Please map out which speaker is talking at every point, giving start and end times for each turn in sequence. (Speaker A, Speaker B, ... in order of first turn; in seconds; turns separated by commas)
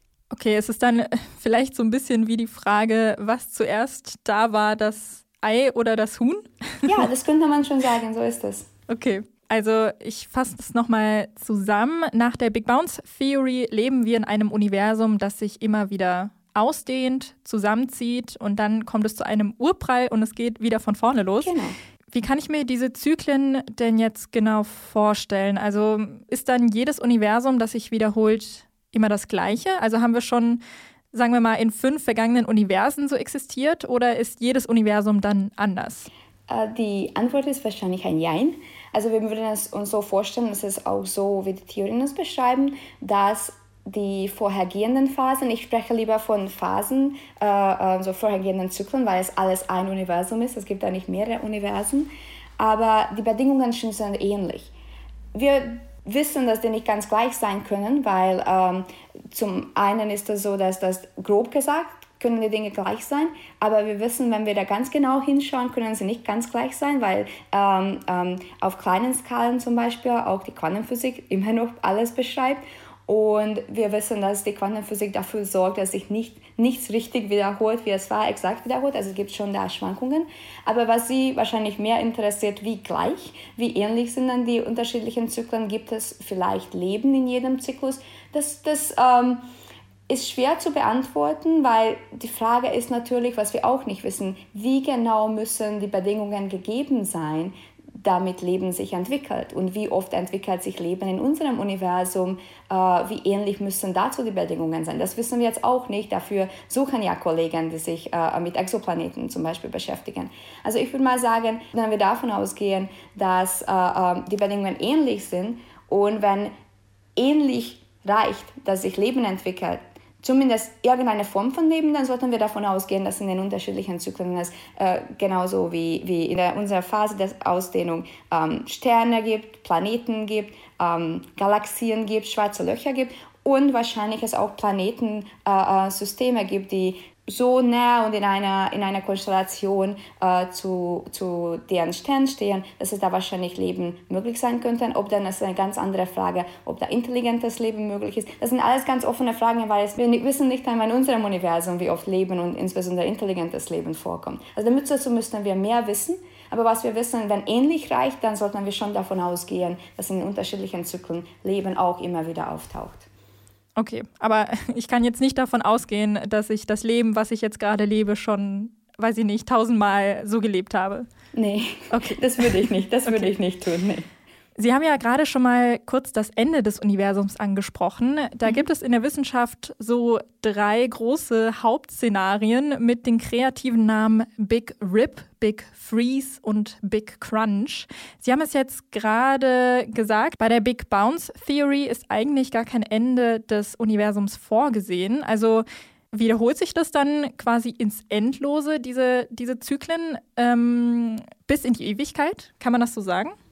Speaker A: 0.3-7.0, Speaker B: 6.8-8.7, Speaker A: 8.9-21.5, Speaker B: 21.4-21.7, Speaker A: 22.1-30.6, Speaker A: 31.1-36.1, Speaker B: 36.5-54.7, Speaker B: 55.3-89.4, Speaker B: 90.1-116.5, Speaker B: 117.2-163.1, Speaker A: 163.8-171.1, Speaker B: 171.3-174.1, Speaker A: 171.9-173.3, Speaker A: 174.6-203.3